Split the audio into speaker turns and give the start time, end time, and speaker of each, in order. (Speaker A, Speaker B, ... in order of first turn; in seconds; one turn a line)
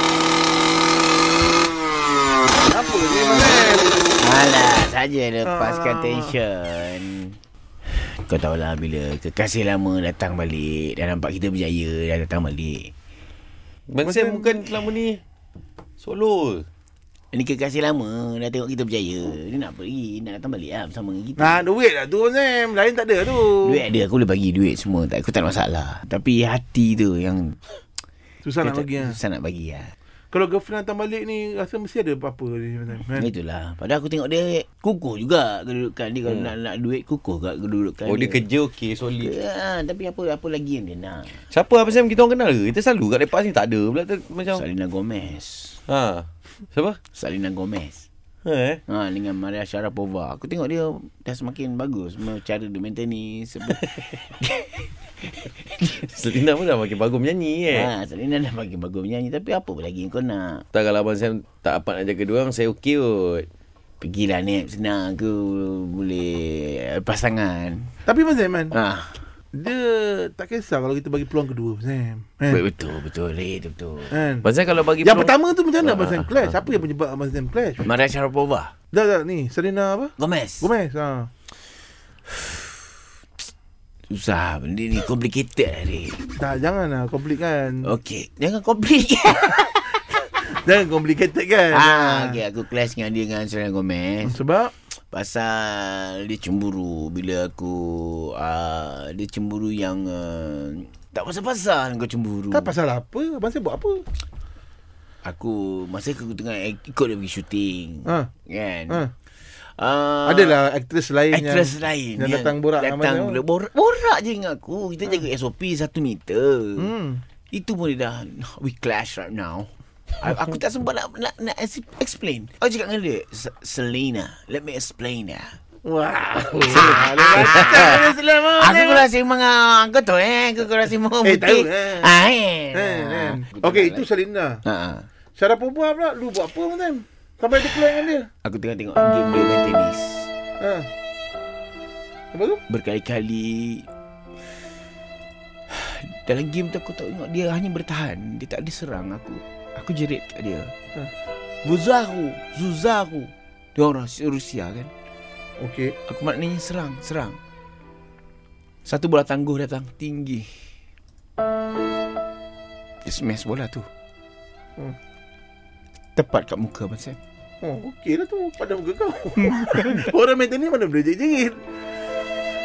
Speaker A: 2.6-4.0
Speaker B: 4.2-7.4
Speaker A: 5.5-6.4
Speaker B: 8.0-12.9
Speaker C: 13.9-15.2
Speaker A: 14.0-14.6
Speaker C: 16.0-16.7
Speaker B: 17.3-21.6
Speaker A: 21.4-23.8
Speaker B: 23.6-27.6
Speaker A: 28.4-29.2
Speaker B: 28.6-29.9
Speaker A: 30.3-33.3
Speaker B: 33.1-38.5
Speaker C: 38.1-39.4
Speaker B: 39.2-41.4
Speaker C: 41.5-44.6
Speaker B: 44.5-45.8
Speaker C: 45.9-47.0
Speaker B: 47.1-48.1
Speaker C: 48.4-48.8
Speaker B: 48.9-54.9
Speaker C: 55.8-57.9
Speaker B: 57.7-60.6
Speaker C: 60.7-63.5
Speaker B: 64.0-68.0
Speaker A: 68.1-68.7
Speaker B: 68.7-69.2
Speaker A: 69.5-72.6
Speaker B: 72.5-74.2
Speaker A: 74.1-74.5
Speaker C: 74.4-76.4
Speaker A: 75.0-77.8
Speaker B: 77.8-78.7
Speaker A: 78.9-81.3
Speaker B: 80.2-80.7
Speaker B: 84.1-86.3
Speaker A: 86.4-87.9
Speaker B: 87.8-90.1
Speaker A: 90.4-92.4
Speaker B: 91.7-94.4
Speaker A: 94.2-94.7
Speaker B: 95.1-102.7
Speaker A: 102.5-104.0
Speaker B: 105.2-110.6
Speaker A: 110.2-113.4
Speaker B: 111.3-116.9
Speaker A: 116.8-117.2
Speaker B: 117.5-125.6
Speaker A: 125.8-129.1
Speaker B: 126.7-134.1
Speaker A: 131.2-132.1
Speaker A: 132.7-134.6
Speaker B: 134.7-135.1
Speaker A: 135.4-138.3
Speaker B: 138.4-140.3
Speaker A: 140.6-140.9
Speaker A: 142.3-142.6
Speaker B: 142.7-143.9
Speaker B: 145.7-150.7
Speaker B: 151.6-154.9
Speaker A: 155.6-155.9
Speaker B: 156.1-157.4
Speaker B: 158.9-160.5
Speaker B: 163.0-163.9
Speaker B: 166.2-167.2
Speaker A: 167.6-171.6
Speaker B: 169.8-170.0